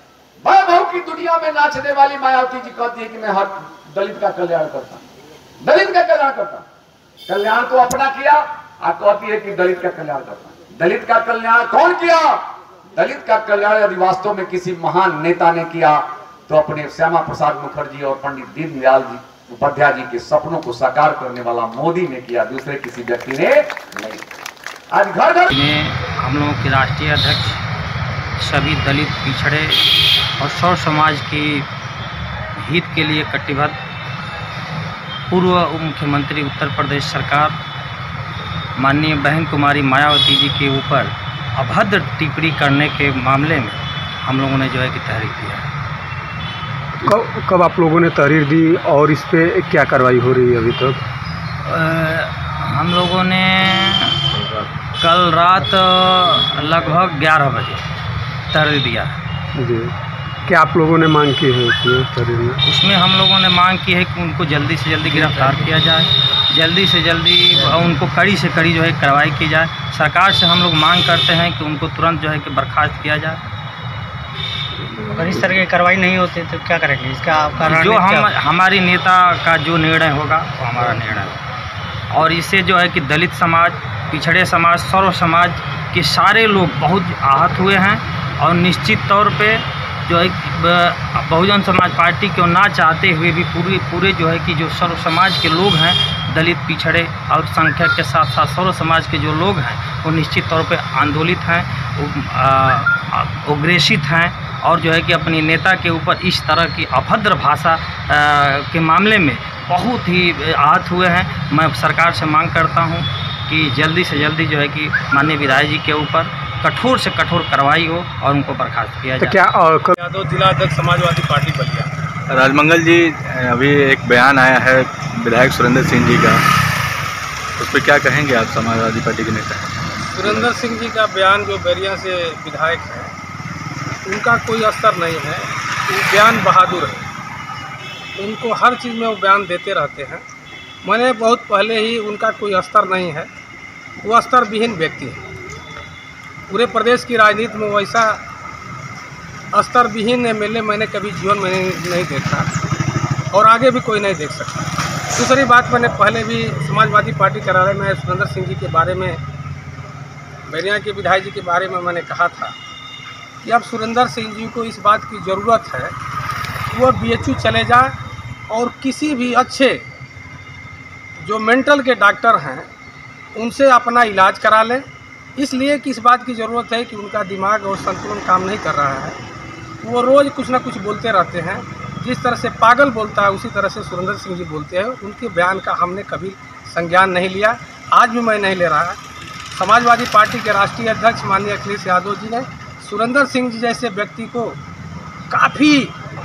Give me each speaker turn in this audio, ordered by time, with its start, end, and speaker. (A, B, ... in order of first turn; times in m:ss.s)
0:00.4-0:05.0 A
0:05.6-0:06.6 A
0:07.3-0:12.4 A
0:13.0-0:24.2 A
0:24.9-0:25.5 A
0:25.5-0:27.6 B
0:28.4-0:29.8 B
0:30.4-0:31.7 B
0:32.6-0:33.8 B
0:35.3-0:37.6 B
0:38.8-0:45.6 B
0:47.0-0:51.0 C
0:51.6-0:54.2 B
0:55.0-0:57.8 B
0:58.5-0:59.1 B
0:59.6-0:59.9 C
1:00.5-1:02.6 C
1:02.6-1:13.4 B
1:15.0-1:18.3 D
1:17.6-1:21.4 B
1:22.1-1:59.4 B
1:59.2-1:59.9 C
2:00.0-2:01.9 E
2:02.3-2:06.4 F
2:07.6-2:09.4 F
2:10.1-2:13.1 E
2:14.0-2:17.0 E
2:18.2-2:20.2 E
2:20.8-2:23.3 E
2:24.0-2:25.2 E
2:26.5-2:28.2 E
2:29.5-2:32.5 E
2:33.3-2:39.2 E
2:40.5-2:42.5 E
2:43.4-2:45.9 E
2:46.7-2:48.0 E
2:48.5-2:49.8 E
2:51.2-2:52.7 E
2:53.3-2:59.2 E
2:59.8-3:09.0 E
3:09.5-3:14.6 E
3:15.3-3:15.9 E